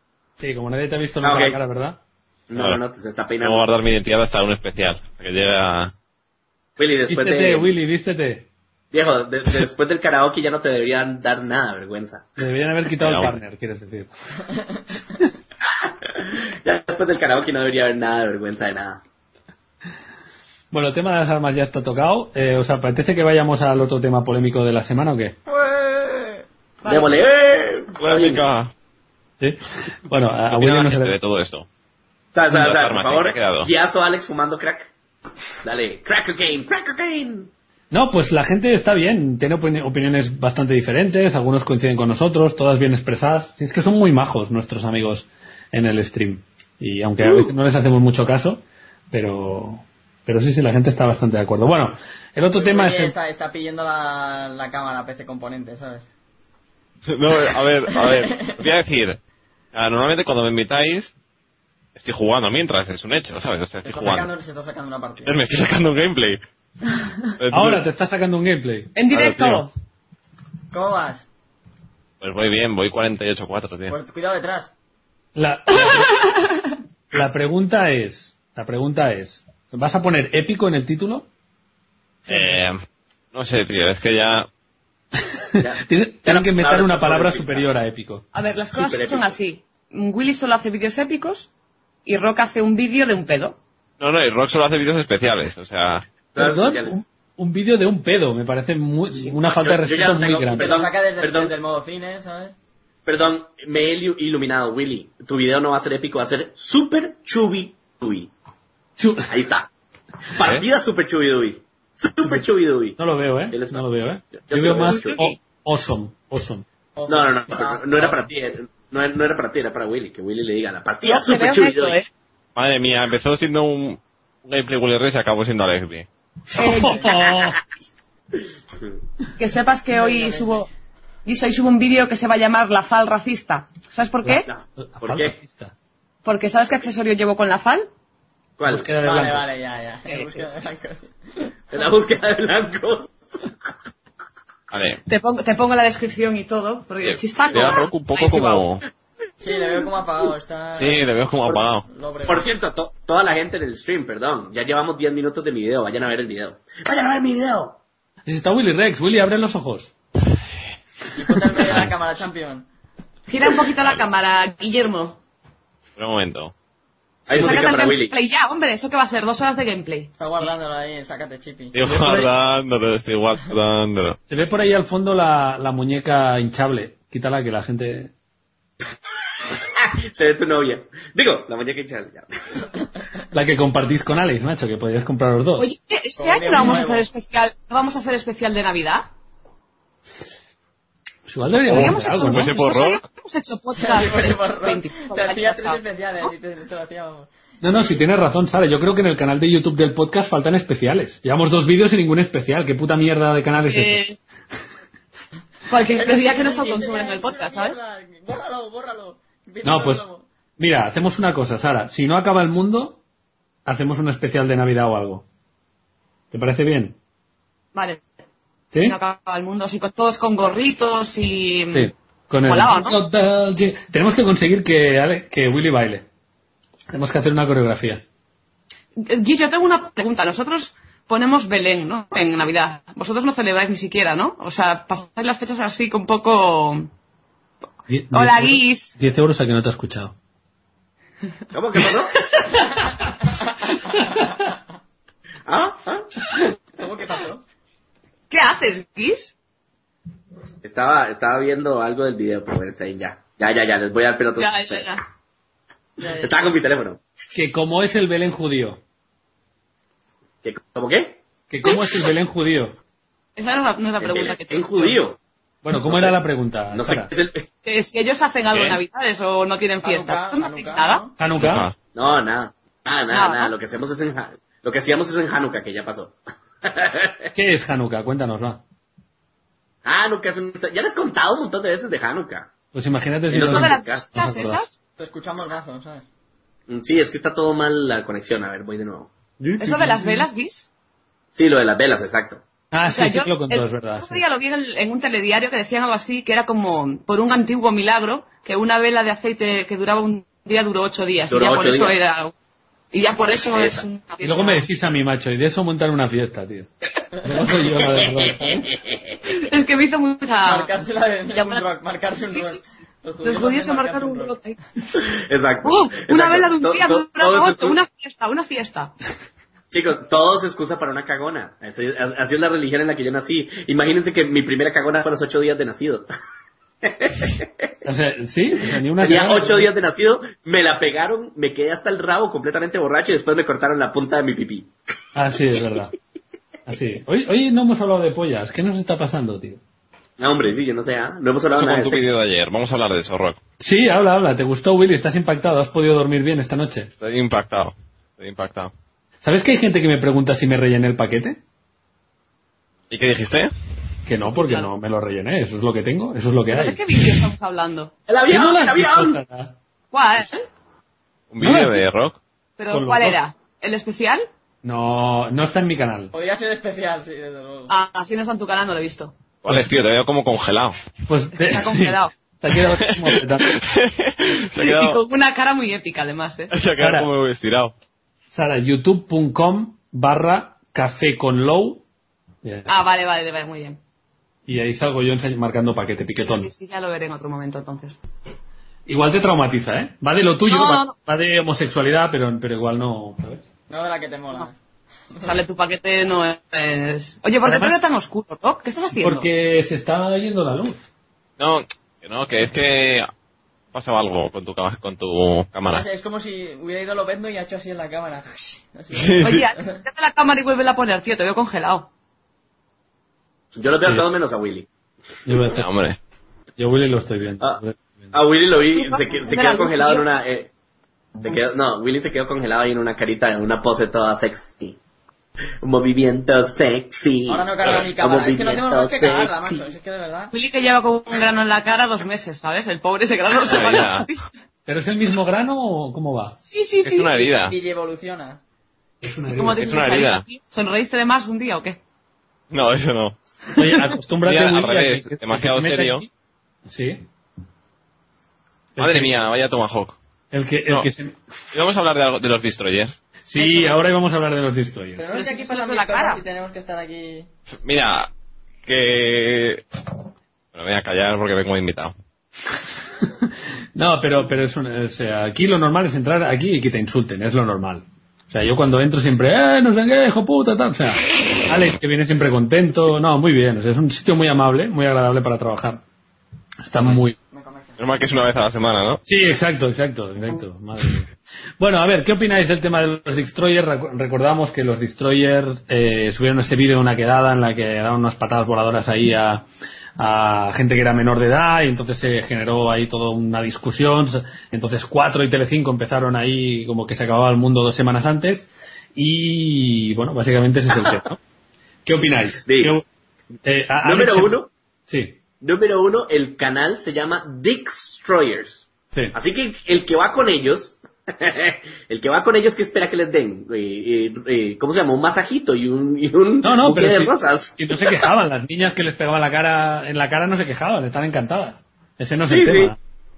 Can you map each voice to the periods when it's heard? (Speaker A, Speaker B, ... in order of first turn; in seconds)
Speaker A: 0.4-2.0, 7.1-8.5, 12.4-14.1, 20.7-25.4, 29.4-31.1, 37.9-53.1, 67.5-68.9, 75.3-76.2, 77.1-81.3, 82.2-82.6, 85.3-88.2, 96.3-100.8, 109.0-109.3, 113.0-116.6, 126.5-127.6, 134.2-135.7, 138.7-139.4, 158.2-159.9, 174.3-178.1, 183.3-185.7, 191.3-192.5, 197.6-204.0, 209.6-210.1, 210.6-213.0, 213.7-215.2, 216.3-217.0, 221.7-226.1, 226.9-228.0, 237.9-240.1, 257.3-258.8, 261.5-262.8, 265.6-267.1, 271.2-271.7, 277.3-278.6, 282.7-284.6, 289.4-290.3, 292.7-294.2, 304.2-306.7, 307.2-308.7, 327.8-329.7, 335.1-335.9, 336.7-339.6, 343.6-346.9, 349.2-351.4, 354.1-356.8, 358.3-359.6, 361.4-361.8, 362.7-363.2, 364.6-366.1, 371.1-373.6, 376.8-377.1, 378.3-381.8, 382.4-382.7, 384.5-386.5, 388.9-393.4, 397.4-397.8, 398.9-400.8, 415.2-415.6, 416.6-418.1, 434.7-436.4, 439.0-439.8, 443.6-446.1, 446.6-447.1, 448.8-449.1, 450.3-451.1, 453.3-455.0, 463.0-475.8, 476.6-477.1, 479.1-489.4, 490.0-501.2, 501.8-502.8, 503.4-504.3, 504.9-505.2, 516.4-522.8
Speaker B: 1.2-1.6, 2.5-3.7, 6.8-7.7, 8.9-12.3, 15.8-19.0, 26.9-28.4, 32.3-34.9, 35.6-37.5, 47.2-47.5, 85.6-87.7, 88.7-89.3, 96.3-97.0, 99.5-101.5, 103.0-108.3, 109.3-109.7, 110.3-113.0, 113.5-113.8, 114.4-115.2, 117.1-122.0, 134.4-135.3, 138.6-138.9, 141.7-143.5, 152.3-157.8, 167.3-168.1, 179.6-182.6, 241.5-242.3, 245.5-246.4, 250.6-254.9, 256.1-257.0, 260.4-261.2, 264.0-265.2, 265.8-266.2, 266.7-267.5, 271.9-277.3, 279.8-282.5, 283.3-284.1, 286.7-289.1, 291.3-292.4, 301.3-301.9, 303.5-303.8, 308.0-309.2, 314.9-317.8, 319.7-326.1, 326.8-327.7, 329.0-334.7, 340.2-342.1, 358.1-359.2, 413.5-414.7, 418.1-420.5, 421.2-424.8, 425.6-429.4, 502.4-502.8, 503.8-504.5, 505.4-518.1, 522.3-522.7
Speaker C: 2.5-2.8, 3.4-5.9, 13.0-13.3, 28.0-28.7, 30.5-31.6, 32.5-33.7, 57.1-59.2, 59.7-61.1, 62.0-64.3, 65.2-66.4, 67.4-67.8, 69.1-69.7, 72.2-73.9, 82.3-82.8, 83.3-84.5, 94.0-96.0, 110.4-110.7, 122.5-126.0, 144.7-145.0, 147.0-148.8, 150.8-151.8, 165.9-166.5, 171.7-174.2, 191.7-193.0, 268.5-268.8, 271.4-271.7, 341.5-343.4, 347.0-348.7, 352.9-353.5, 361.3-362.2, 369.4-370.8, 372.8-375.0, 376.5-377.7, 401.4-403.1, 403.7-405.9, 408.9-409.5, 415.5-416.0, 433.5-434.1, 436.8-437.5, 439.6-440.2, 442.5-443.2, 444.2-446.0, 448.8-450.0, 451.5-453.0, 457.6-458.1, 458.6-459.6, 460.5-461.9, 477.8-479.0
Speaker D: 25.5-26.4, 52.5-56.1, 57.9-58.7, 63.8-65.3, 70.7-71.3, 73.9-74.7, 100.5-102.5, 117.0-118.3, 126.7-127.1, 129.9-130.7, 139.0-141.1, 149.4-151.1, 151.8-152.5, 161.1-162.7, 170.2-172.3, 186.2-187.1, 193.7-198.0, 205.9-210.2, 246.8-247.4, 256.0-256.5, 269.8-271.1, 285.0-286.0, 310.4-314.3, 366.1-367.7, 393.7-394.5, 405.7-409.8, 427.2-430.3, 437.3-438.4, 453.4-453.8, 454.9-457.3, 476.8-478.0
Speaker E: 26.8-27.2, 69.0-69.7, 75.9-76.6, 88.3-91.5, 92.0-93.6, 114.8-115.3, 121.0-122.1, 126.5-127.2, 129.3-130.7, 131.2-134.5, 136.2-137.9, 145.1-148.6, 163.3-165.2, 167.3-170.1, 185.6-189.1, 191.6-195.8, 203.5-204.2, 205.7-207.8, 217.7-218.0, 218.8-221.9, 222.5-223.0, 229.0-236.9, 238.1-238.9, 248.3-249.3, 254.4-255.0, 263.4-265.0, 267.6-271.0, 273.1-273.5, 283.3-284.7, 289.6-290.7, 292.9-302.3, 302.9-304.7, 309.3-310.8, 311.3-311.6, 312.3-312.6, 313.2-314.6, 315.6-318.9, 354.2-354.7, 356.5-357.9, 359.9-360.5, 362.6-364.3, 367.7-369.1, 371.4-372.1, 374.4-376.5, 382.6-383.8, 386.2-388.0, 390.5-390.9, 395.2-399.3, 409.2-411.9, 418.7-420.1, 430.3-434.2, 436.5-437.3, 439.3-441.8, 455.1-456.2